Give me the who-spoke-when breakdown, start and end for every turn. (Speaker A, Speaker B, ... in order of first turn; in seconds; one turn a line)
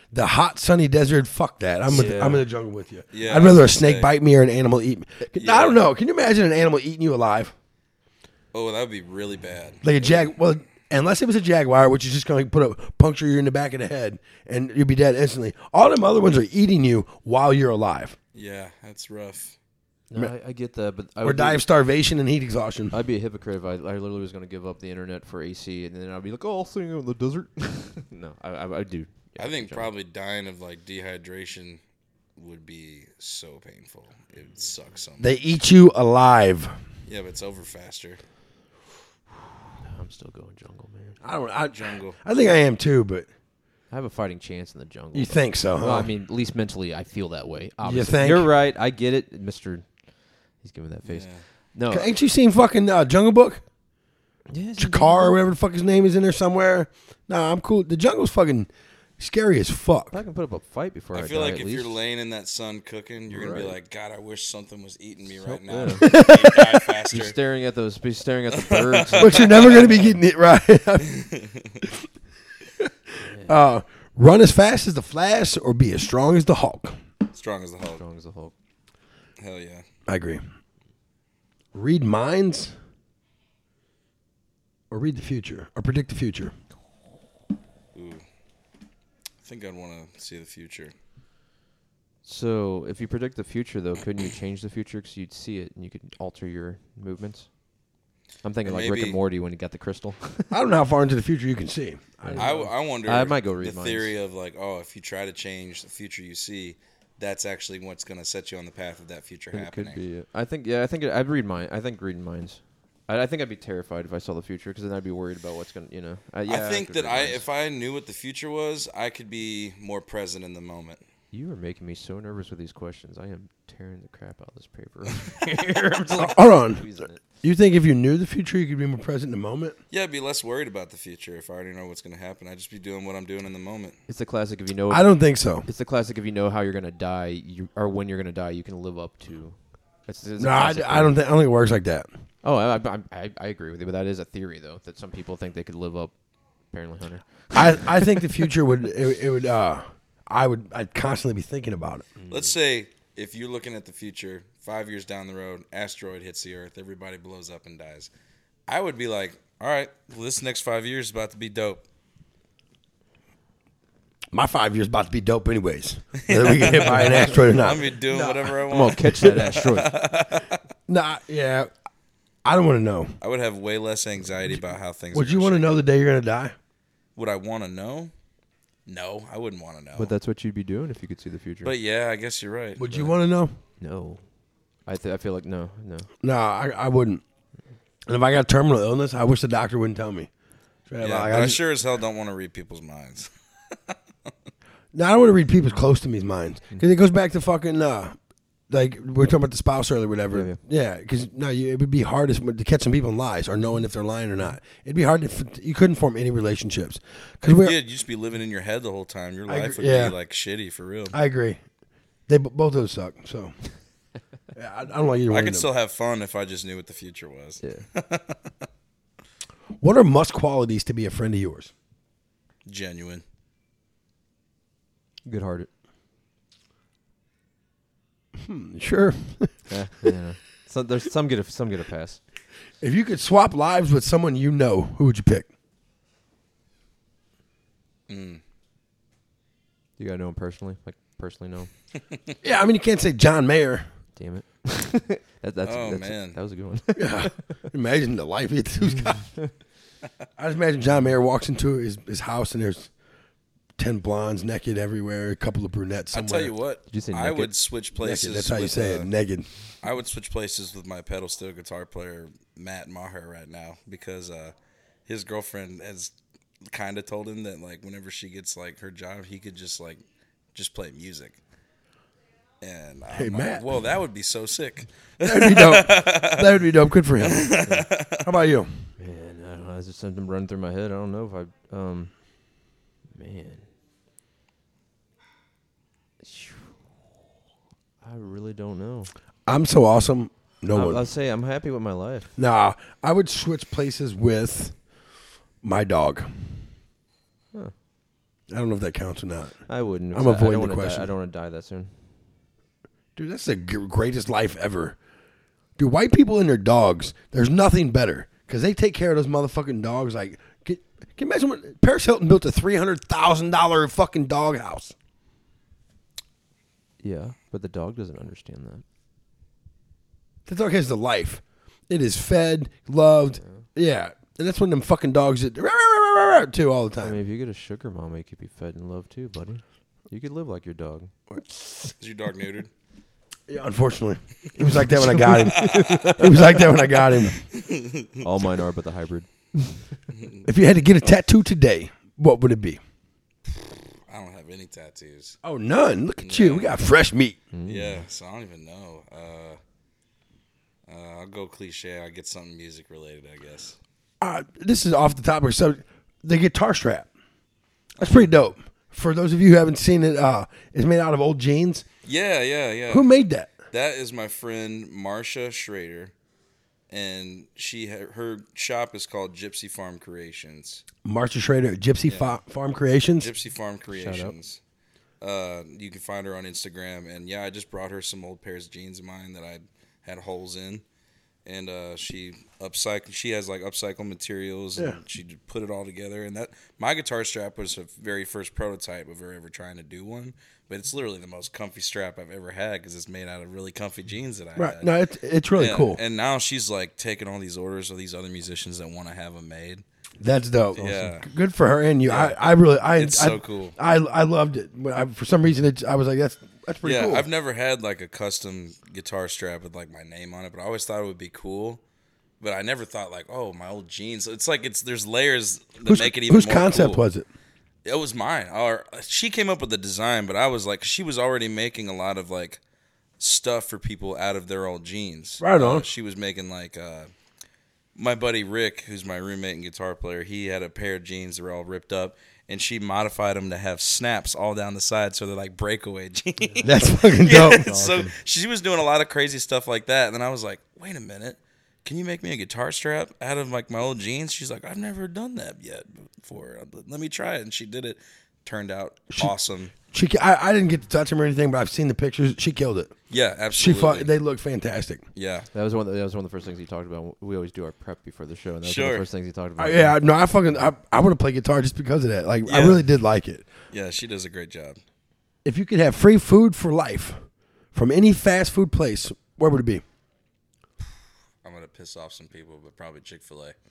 Speaker A: 0.1-7.5
Speaker B: 1.9-2.5
Speaker C: 3.1-4.1
Speaker C: 5.4-5.8
Speaker C: 8.5-10.2
Speaker A: 9.8-18.2
Speaker C: 18.3-19.6
Speaker B: 20.1-21.6
Speaker A: 21.2-23.0
Speaker B: 22.9-29.9
Speaker C: 29.4-31.8
Speaker C: 32.4-35.3
Speaker A: 35.2-36.7
Speaker C: 37.1-38.2
Speaker B: 39.9-41.2
Speaker A: 41.2-43.3
Speaker C: 41.7-42.2
Speaker B: 43.9-50.0
Speaker A: 45.1-46.1
Speaker A: 47.8-48.5
Speaker B: 50.6-52.1
Speaker C: 51.1-51.4
Speaker A: 51.9-53.6
Speaker B: 54.5-55.4
Speaker A: 54.8-60.2
Speaker B: 60.1-62.0
Speaker C: 61.1-67.4
Speaker B: 63.4-63.6
Speaker B: 65.3-66.4
Speaker A: 66.0-66.9
Speaker B: 67.1-69.6
Speaker C: 68.5-70.0
Speaker A: 69.2-71.2
Speaker C: 71.0-71.8
Speaker B: 73.2-73.6
Speaker A: 73.4-77.0
Speaker C: 77.3-78.0
Speaker B: 77.9-78.5
Speaker C: 79.4-79.8
Speaker A: 80.1-80.4
Speaker A: 81.7-82.7
Speaker A: 84.9-86.5
Speaker C: 87.9-88.2
Speaker C: 89.4-90.9
Speaker B: 92.2-97.5
Speaker B: 98.4-100.5
Speaker C: 98.7-99.2
Speaker A: 100.5-102.7
Speaker B: 102.2-104.1
Speaker C: 102.4-110.0
Speaker B: 109.5-117.4
Speaker C: 116.5-121.0
Speaker B: 121.3-127.2
Speaker A: 126.2-126.9
Speaker A: 127.4-129.8
Speaker C: 129.9-134.0
Speaker B: 134.1-135.1
Speaker A: 134.9-135.7
Speaker B: 135.6-141.2
Speaker A: 140.4-142.1
Speaker B: 142.4-146.1
Speaker B: 146.7-148.2
Speaker A: 147.5-152.1
Speaker B: 152.2-152.5
Speaker C: 152.3-158.1
Speaker C: 158.7-161.8
Speaker A: 164.3-168.6
Speaker C: 166.2-170.6
Speaker B: 168.7-169.9
Speaker A: 170.9-171.7
Speaker A: 172.4-173.1
Speaker C: 173.2-175.8
Speaker A: 175.1-176.6
Speaker C: 177.2-178.1
Speaker C: 178.9-180.1
Speaker B: 179.9-181.7
Speaker C: 181.6-182.9
Speaker A: 182.8-183.5
Speaker B: 183.8-184.2
Speaker B: 184.9-186.1
Speaker A: 186.2-187.2
Speaker A: 188.1-190.3
Speaker A: 190.9-191.6
Speaker C: 191.0-193.3
Speaker A: 194.9-198.2
Speaker A: 198.7-207.8
Speaker B: 200.3-200.6
Speaker C: 207.6-211.2
Speaker A: 209.5-210.2
Speaker A: 211.1-211.6
Speaker A: 212.3-213.6
Speaker A: 214.5-215.7
Speaker C: 215.3-218.4
Speaker B: 217.6-217.9
Speaker A: 219.8-221.7
Speaker C: 222.7-223.2
Speaker B: 225.3-225.7
Speaker A: 228.4-229.6
Speaker B: 229.7-232.2
Speaker A: 232.8-235.5
Speaker C: 238.1-238.4
Speaker B: 240.0-241.7
Speaker A: 242.4-243.9
Speaker B: 244.2-247.5
Speaker C: 245.6-246.4
Speaker A: 246.9-249.3
Speaker B: 249.1-249.5
Speaker A: 250.4-252.9
Speaker A: 253.8-256.5
Speaker C: 256.1-259.1
Speaker B: 256.9-257.5
Speaker A: 258.0-259.5
Speaker C: 259.8-264.5
Speaker C: 265.1-270.0
Speaker C: 270.5-271.4
Speaker C: 272.6-276.6
Speaker A: 273.1-273.8
Speaker A: 275.2-277.6
Speaker C: 277.2-278.3
Speaker B: 277.6-277.9
Speaker A: 278.2-278.7
Speaker B: 279.0-282.1
Speaker B: 283.1-283.7
Speaker B: 286.2-286.7
Speaker B: 288.0-289.1
Speaker A: 289.5-291.1
Speaker B: 290.7-292.3
Speaker A: 292.4-294.8
Speaker A: 295.6-296.5
Speaker A: 298.5-299.6
Speaker B: 299.7-302.1
Speaker A: 300.1-301.1
Speaker A: 303.2-305.0
Speaker A: 305.8-314.9
Speaker B: 317.0-318.8
Speaker A: 320.5-327.2
Speaker B: 327.0-331.1
Speaker A: 331.3-331.7
Speaker C: 332.0-332.7
Speaker A: 333.5-337.4
Speaker B: 335.0-336.7
Speaker C: 335.3-336.2
Speaker C: 337.5-338.2
Speaker B: 338.2-340.0
Speaker C: 340.2-340.4
Speaker A: 340.4-342.8
Speaker C: 344.1-345.4
Speaker A: 345.4-347.4
Speaker C: 346.2-346.8
Speaker B: 347.5-348.0
Speaker C: 347.7-349.6
Speaker C: 350.9-353.8
Speaker A: 354.2-357.1
Speaker C: 358.0-358.3
Speaker A: 358.0-361.9
Speaker C: 362.0-363.1
Speaker A: 362.9-363.6
Speaker C: 363.7-366.1
Speaker C: 366.9-370.8
Speaker A: 371.0-373.3
Speaker C: 372.1-372.3
Speaker C: 373.2-374.6
Speaker B: 373.9-374.4
Speaker C: 375.2-380.8
Speaker C: 381.4-394.9
Speaker A: 394.6-396.0
Speaker C: 395.6-399.8
Speaker A: 400.2-407.3
Speaker C: 400.8-401.3
Speaker C: 402.1-402.4
Speaker C: 402.9-403.8
Speaker C: 406.8-411.8
Speaker C: 412.4-417.0
Speaker A: 415.9-417.3
Speaker C: 417.9-422.6
Speaker C: 423.2-427.1
Speaker A: 425.4-425.9
Speaker C: 428.0-449.7
Speaker A: 436.6-437.8
Speaker B: 437.3-438.2
Speaker A: 449.9-452.9
Speaker C: 453.1-454.1
Speaker A: 453.5-455.0
Speaker C: 455.2-455.5
Speaker B: 455.5-460.0
Speaker C: 458.6-459.1
Speaker A: 459.6-463.5
Speaker C: 462.5-462.8
Speaker C: 463.7-464.8
Speaker A: 465.4-467.2
Speaker A: 467.7-469.8
Speaker C: 471.4-473.6